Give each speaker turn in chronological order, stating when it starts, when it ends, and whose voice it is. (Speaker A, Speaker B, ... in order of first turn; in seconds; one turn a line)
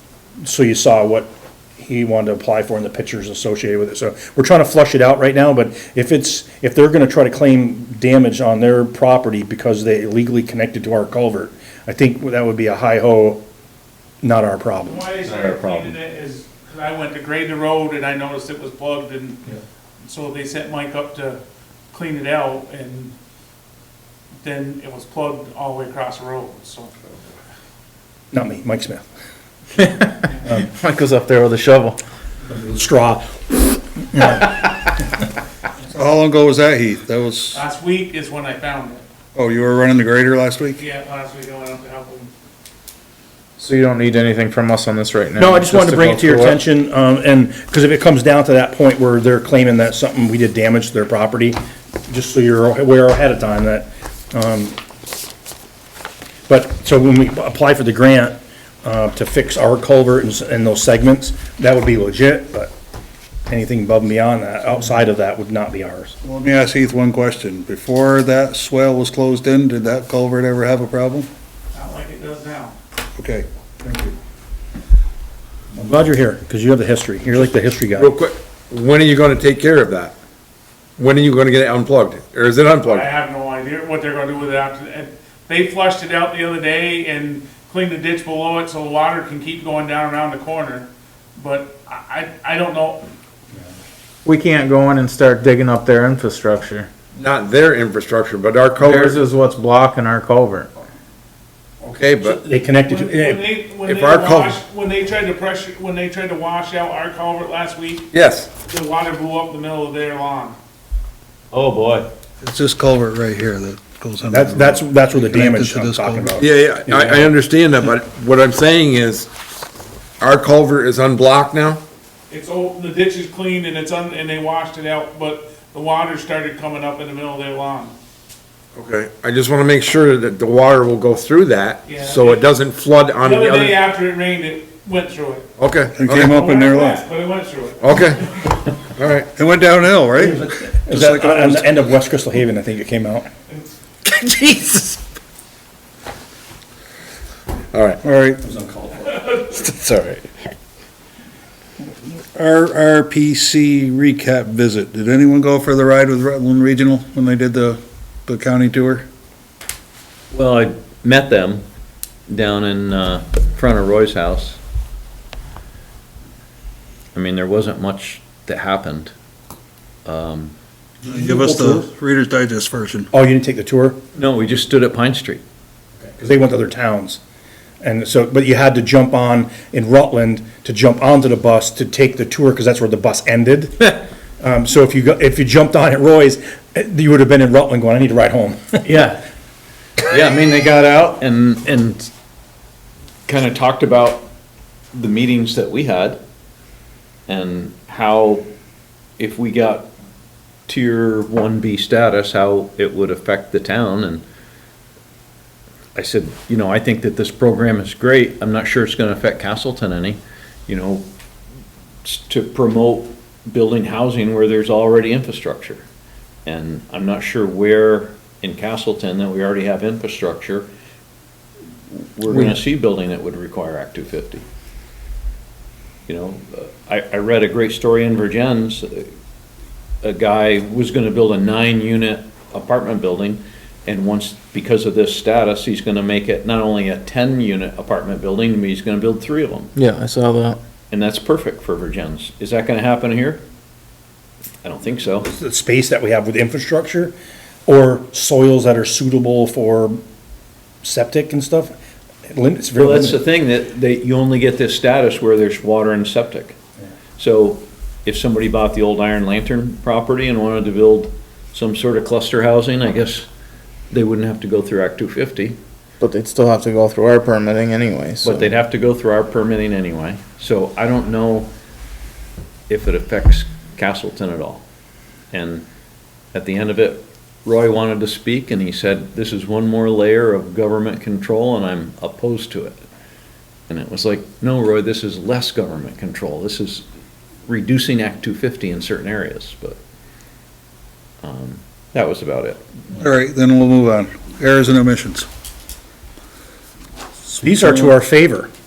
Speaker A: 0.4-13.4
Speaker A: 14.2-15.1
Speaker B: 14.8-21.4
Speaker C: 15.2-15.9
Speaker B: 21.9-23.1
Speaker B: 24.4-27.2
Speaker A: 28.3-29.0
Speaker D: 29.8-32.0
Speaker A: 32.5-34.9
Speaker E: 35.9-37.6
Speaker B: 37.5-39.0
Speaker E: 39.3-40.8
Speaker B: 40.8-42.3
Speaker D: 43.6-46.6
Speaker A: 45.4-54.8
Speaker A: 56.5-62.7
Speaker A: 63.5-66.2
Speaker E: 66.2-71.3
Speaker B: 71.7-72.7
Speaker E: 73.2-74.1
Speaker A: 75.7-78.1
Speaker F: 77.9-80.1
Speaker F: 81.0-83.1
Speaker B: 82.8-93.0
Speaker D: 94.2-96.9
Speaker F: 97.2-99.2
Speaker D: 98.8-100.7
Speaker F: 101.8-102.4
Speaker A: 102.2-103.4
Speaker B: 102.8-110.5
Speaker F: 103.8-104.6
Speaker F: 108.1-108.5
Speaker C: 111.5-112.1
Speaker E: 112.4-116.4
Speaker A: 114.3-117.3
Speaker F: 116.4-119.3
Speaker F: 120.2-121.8
Speaker B: 122.3-127.9
Speaker F: 128.7-133.8
Speaker B: 131.8-132.4
Speaker B: 133.2-135.4
Speaker F: 135.6-136.4
Speaker E: 135.9-137.0
Speaker B: 136.3-138.6
Speaker F: 137.8-138.3
Speaker F: 138.9-139.3
Speaker E: 139.3-141.8
Speaker A: 140.2-143.3
Speaker F: 144.1-145.0
Speaker F: 147.7-148.0
Speaker E: 148.0-148.4
Speaker A: 148.4-149.3
Speaker F: 149.4-150.5
Speaker E: 152.0-159.1
Speaker C: 160.3-161.6
Speaker C: 162.3-164.6
Speaker C: 167.1-169.1
Speaker C: 170.0-170.5
Speaker E: 171.0-173.1
Speaker A: 171.1-171.9
Speaker A: 173.1-174.0
Speaker C: 174.1-175.4
Speaker A: 176.0-177.2
Speaker A: 177.8-188.9
Speaker C: 188.8-189.2
Speaker C: 190.1-192.1
Speaker C: 193.3-194.3
Speaker C: 194.9-196.2
Speaker C: 197.3-198.4
Speaker C: 199.2-199.9
Speaker C: 200.7-204.2
Speaker C: 205.9-211.1
Speaker C: 212.0-215.8
Speaker C: 216.4-220.7
Speaker C: 221.9-224.4
Speaker C: 226.1-229.1
Speaker C: 230.0-239.7
Speaker D: 239.8-240.6
Speaker C: 240.9-243.4
Speaker C: 244.6-245.3
Speaker A: 245.2-247.1
Speaker A: 247.7-250.0
Speaker A: 250.8-251.7
Speaker A: 252.3-253.2
Speaker C: 252.8-256.6
Speaker C: 257.2-263.3
Speaker C: 263.9-265.6
Speaker D: 266.0-268.5
Speaker C: 268.2-271.5
Speaker C: 272.7-274.6
Speaker C: 275.3-275.6
Speaker C: 276.3-282.8
Speaker C: 283.7-286.8
Speaker C: 287.5-289.8
Speaker C: 291.2-292.6
Speaker E: 292.9-295.3
Speaker E: 297.2-298.0
Speaker A: 297.4-298.5